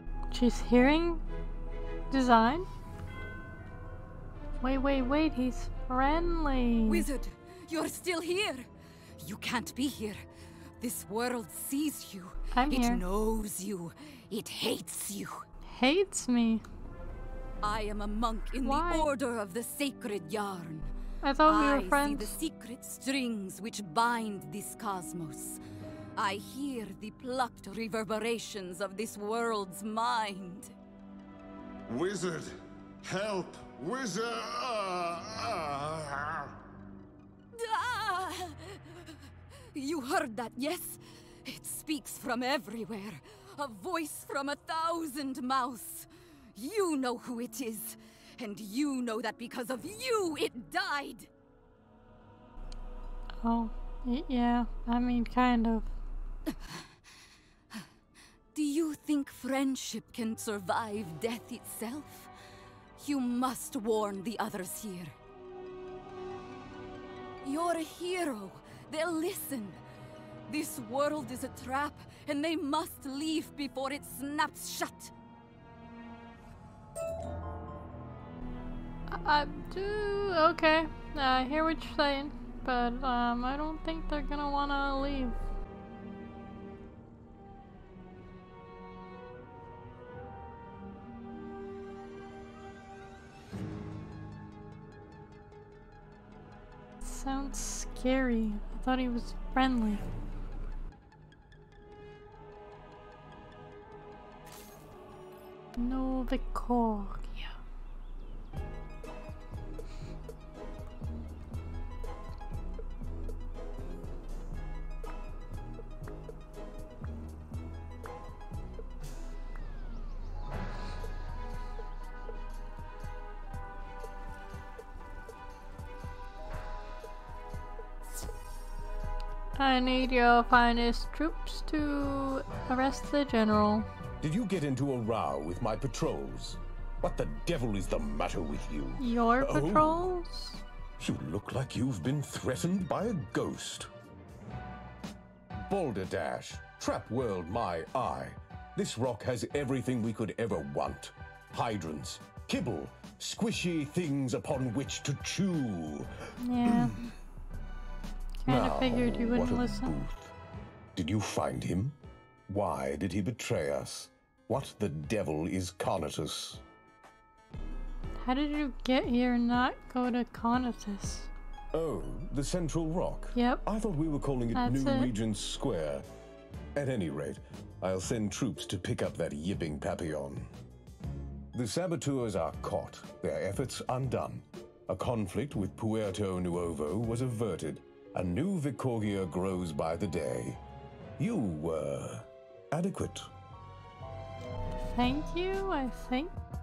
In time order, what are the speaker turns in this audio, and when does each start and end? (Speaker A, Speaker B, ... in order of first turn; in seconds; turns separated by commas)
Speaker A: 0.3-1.2, Speaker A: 2.1-2.7, Speaker A: 4.6-7.1, Speaker B: 6.9-8.7, Speaker B: 9.2-10.3, Speaker B: 10.8-15.5, Speaker A: 12.5-13.0, Speaker A: 15.7-16.6, Speaker B: 17.6-20.9, Speaker A: 18.6-19.1, Speaker A: 21.2-22.4, Speaker B: 21.5-25.6, Speaker B: 26.2-30.7, Speaker C: 31.9-36.5, Speaker B: 37.6-39.2, Speaker B: 39.8-51.3, Speaker A: 53.4-55.9, Speaker B: 56.5-56.9, Speaker B: 58.5-62.3, Speaker B: 63.0-65.2, Speaker B: 67.4-69.8, Speaker B: 70.5-75.1, Speaker A: 79.1-85.4, Speaker A: 97.0-100.0, Speaker A: 105.8-107.6, Speaker A: 129.6-133.9, Speaker D: 134.2-140.1, Speaker A: 139.0-140.6, Speaker D: 141.0-143.9, Speaker D: 145.7-156.1, Speaker A: 156.4-156.9, Speaker D: 156.7-156.9, Speaker A: 158.4-159.9, Speaker D: 158.5-160.3, Speaker D: 160.9-162.0, Speaker D: 162.5-166.6, Speaker A: 168.2-171.3, Speaker D: 171.7-176.1, Speaker A: 173.3-173.6, Speaker A: 174.6-175.1, Speaker D: 176.8-180.5, Speaker D: 181.5-190.6, Speaker D: 191.2-193.3, Speaker A: 194.9-196.3